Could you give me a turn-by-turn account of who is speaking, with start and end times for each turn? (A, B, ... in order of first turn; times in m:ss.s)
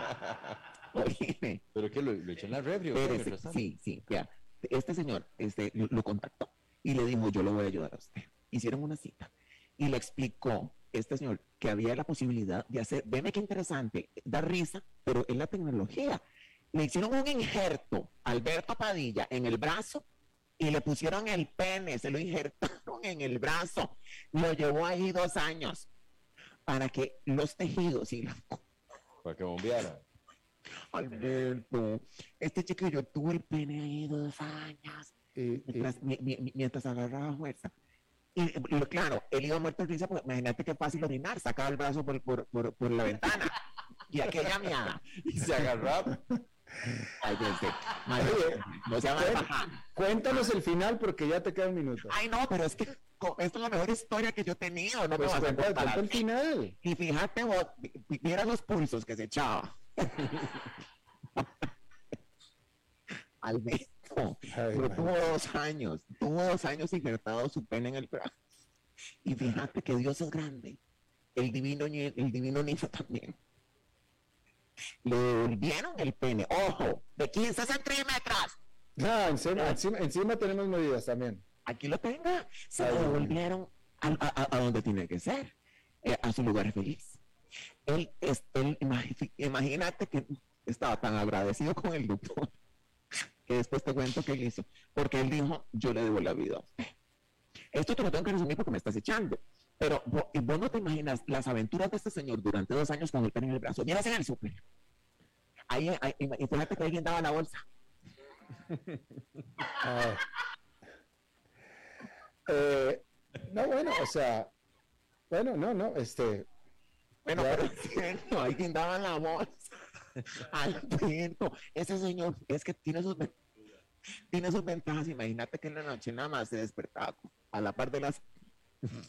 0:00.9-0:01.6 A
0:01.8-0:03.8 B
0:02.9-0:16.2 A
0:16.7-0:20.0 A
0:20.6-0:25.9 A
0:26.7-0:28.6 A
0:29.2-0:30.0 B
0:30.9-0:35.1 A
0:35.4-0:35.9 C
0:35.7-0:37.7 A
0:38.4-0:43.5 A
0:44.1-0:45.1 A
0:45.2-0:46.1 B
0:47.2-0:49.8 A
0:48.2-0:48.6 C
0:49.1-0:52.2 C
0:52.1-0:56.2 A
0:55.2-0:56.8 C
0:56.8-1:00.2 A
1:03.4-1:08.3 A
1:04.5-1:05.2 C
1:09.2-1:10.8 A
1:11.4-1:13.4 A
1:15.0-1:18.6 A
1:19.0-1:21.4 C
1:21.7-1:25.5 A
1:22.8-1:23.4 C
1:26.0-1:27.2 A
1:27.9-1:32.5 A
1:33.5-1:36.9 A
1:37.7-1:44.6 A
1:45.7-1:47.6 A
1:49.7-1:50.3 C
1:52.5-1:54.5 C
1:55.3-1:56.5 C
1:57.2-1:59.7 A
1:57.3-1:57.8 C
2:00.4-2:03.3 A
2:04.3-2:08.2 A